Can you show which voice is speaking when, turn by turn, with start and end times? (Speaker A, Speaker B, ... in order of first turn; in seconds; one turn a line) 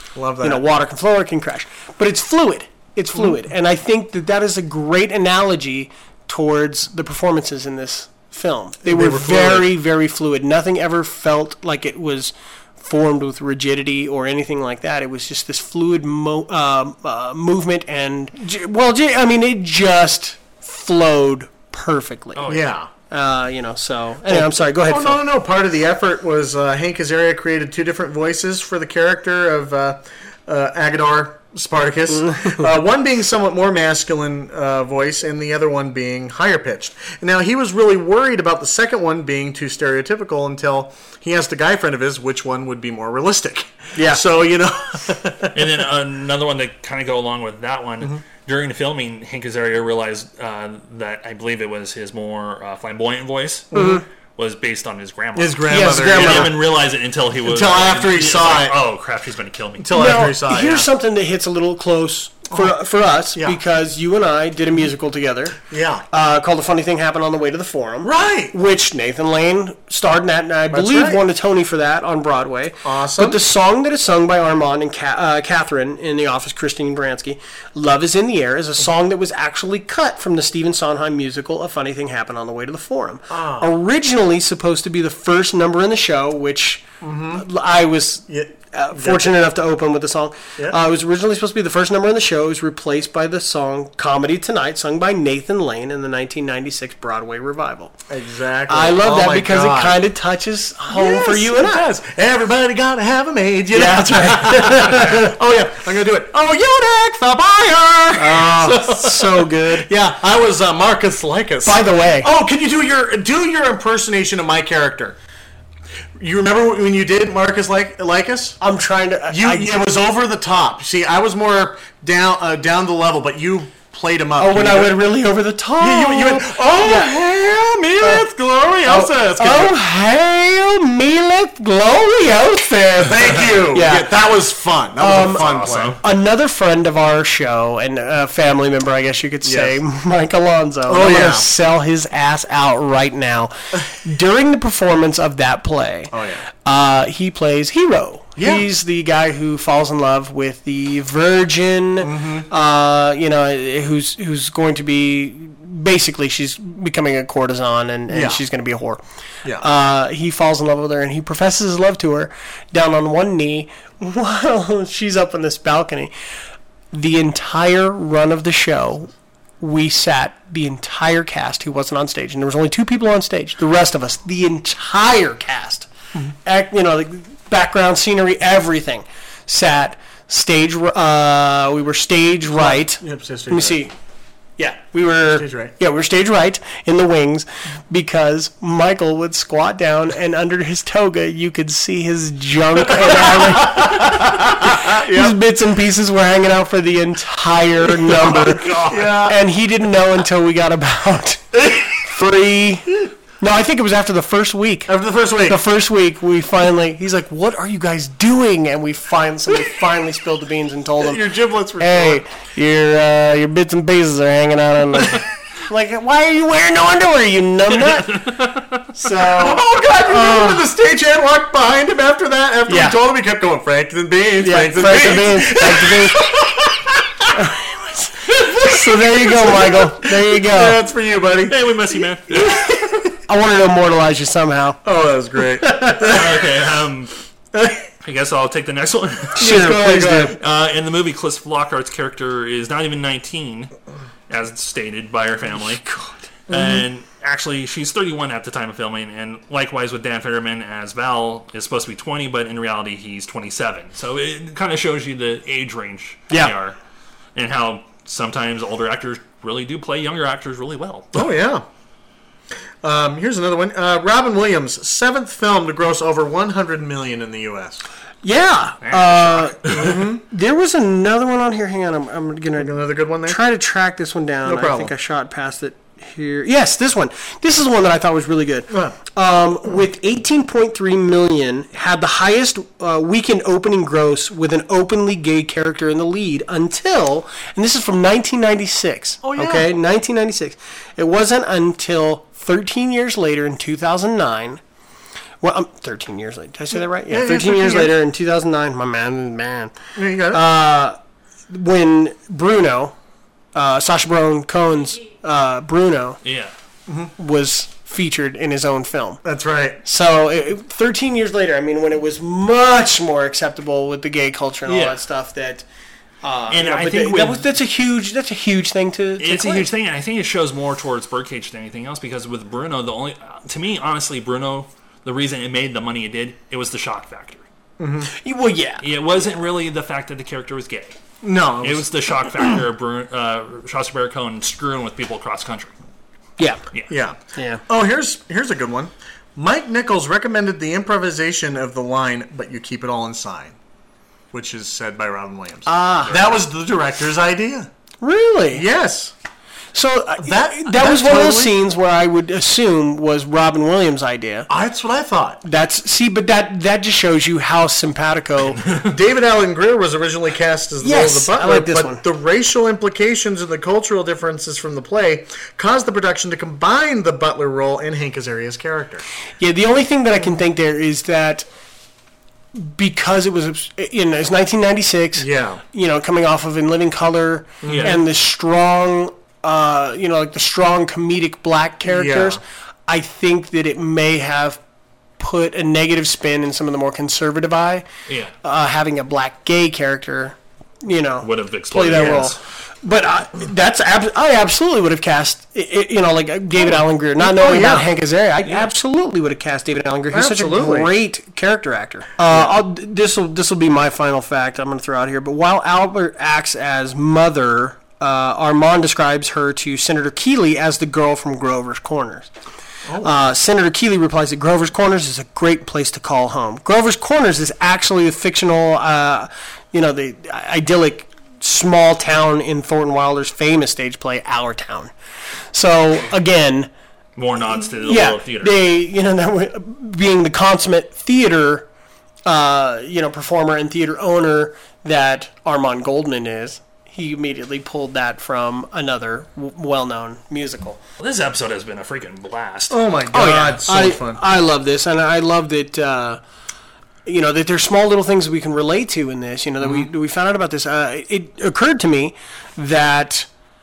Speaker A: 0.1-0.7
Speaker B: 0.4-22.4
Speaker A: 8.8-9.7
Speaker C: 22.4-22.7
Speaker A: 22.5-22.9
Speaker B: 23.1-25.2
Speaker A: 24.3-45.6
Speaker B: 44.0-44.2
Speaker C: 45.5-53.8
Speaker A: 53.7-54.0
Speaker B: 53.7-54.0
Speaker C: 54.4-59.9
Speaker A: 55.4-56.6
Speaker B: 55.7-56.6
Speaker A: 57.4-58.8
Speaker A: 59.8-60.9
Speaker B: 59.9-65.6
Speaker A: 65.7-66.0
Speaker B: 66.1-97.9
Speaker A: 68.0-68.5
Speaker A: 70.7-71.2
Speaker A: 72.8-73.4
Speaker A: 83.3-83.7
Speaker A: 87.0-87.4
Speaker A: 88.3-89.4
Speaker A: 98.1-100.0
Speaker B: 98.7-101.9
Speaker A: 100.9-115.2
Speaker B: 103.7-105.3
Speaker B: 108.2-109.9
Speaker B: 111.6-112.3
Speaker A: 116.2-118.6
Speaker B: 118.6-119.7
Speaker A: 119.3-125.0
Speaker B: 124.4-127.2
Speaker A: 125.8-129.8
Speaker B: 128.8-134.1
Speaker A: 133.0-136.0
Speaker B: 135.0-135.5
Speaker C: 135.2-136.0
Speaker B: 136.0-159.0
Speaker A: 139.4-139.8
Speaker A: 140.9-141.5
Speaker A: 146.1-146.4
Speaker A: 148.4-148.7
Speaker A: 152.0-152.5
Speaker A: 158.1-158.4
Speaker B: 159.6-166.1
Speaker B: 166.9-175.9
Speaker B: 176.4-183.9
Speaker A: 182.5-183.8
Speaker B: 184.6-211.3
Speaker A: 185.3-185.7
Speaker A: 192.9-195.4
Speaker A: 198.0-199.4
Speaker A: 204.9-205.6
Speaker A: 211.0-212.2
Speaker B: 211.8-218.3
Speaker C: 218.1-218.8
Speaker B: 218.9-220.7
Speaker A: 219.2-227.3
Speaker B: 222.7-223.0
Speaker B: 224.4-226.3
Speaker B: 227.3-230.8
Speaker A: 228.4-231.7
Speaker C: 231.5-232.7
Speaker A: 232.5-232.8
Speaker B: 233.3-234.8
Speaker A: 234.8-236.4
Speaker B: 235.6-236.2
Speaker C: 236.1-237.1
Speaker A: 237.5-237.8
Speaker C: 238.0-239.5
Speaker A: 239.4-240.3
Speaker B: 239.4-240.3
Speaker C: 240.3-243.7
Speaker C: 244.3-245.8
Speaker B: 245.6-246.3
Speaker A: 246.5-246.8
Speaker C: 246.5-256.8
Speaker C: 257.4-261.2
Speaker A: 261.1-261.6
Speaker A: 262.8-267.8
Speaker B: 268.2-294.6
Speaker C: 268.8-269.5
Speaker A: 269.7-270.2
Speaker A: 272.6-273.4
Speaker A: 274.4-274.9
Speaker A: 278.7-279.0
Speaker A: 289.2-289.7
Speaker B: 295.4-299.7
Speaker A: 297.1-297.9
Speaker A: 299.9-300.4
Speaker B: 300.3-300.9
Speaker B: 301.5-302.9
Speaker B: 303.5-306.2
Speaker C: 306.2-306.5
Speaker B: 307.2-309.2
Speaker A: 309.2-309.8
Speaker B: 309.8-315.6
Speaker C: 314.7-315.0
Speaker B: 316.2-319.7
Speaker C: 316.5-317.4
Speaker C: 319.2-327.4
Speaker A: 327.8-328.1
Speaker B: 328.1-328.8
Speaker C: 328.8-330.9
Speaker A: 331.2-331.9
Speaker C: 331.6-335.7
Speaker B: 336.4-336.6
Speaker A: 336.9-343.6
Speaker B: 337.3-337.6
Speaker A: 344.3-347.7
Speaker B: 345.7-346.2
Speaker B: 348.0-348.6
Speaker A: 348.5-349.1
Speaker B: 349.7-354.5
Speaker A: 350.2-351.6
Speaker A: 354.5-355.4
Speaker B: 355.4-358.6
Speaker C: 358.6-358.9
Speaker A: 358.8-369.1
Speaker B: 360.8-362.0
Speaker B: 369.4-371.5
Speaker B: 372.5-384.6
Speaker A: 375.1-375.6
Speaker A: 377.6-378.0
Speaker C: 377.6-378.0
Speaker A: 381.9-382.4
Speaker B: 385.2-387.8
Speaker C: 388.1-388.3
Speaker B: 388.4-412.3
Speaker C: 391.2-392.4
Speaker A: 391.9-392.3
Speaker A: 396.6-397.9
Speaker A: 400.1-400.9
Speaker A: 402.3-402.6
Speaker A: 412.9-413.2
Speaker B: 413.0-424.9
Speaker B: 425.5-426.7
Speaker C: 427.2-428.6
Speaker B: 427.8-431.7
Speaker B: 432.2-440.8
Speaker C: 441.0-442.8
Speaker A: 442.7-444.2
Speaker B: 443.1-446.2
Speaker B: 447.1-453.3
Speaker A: 449.6-449.9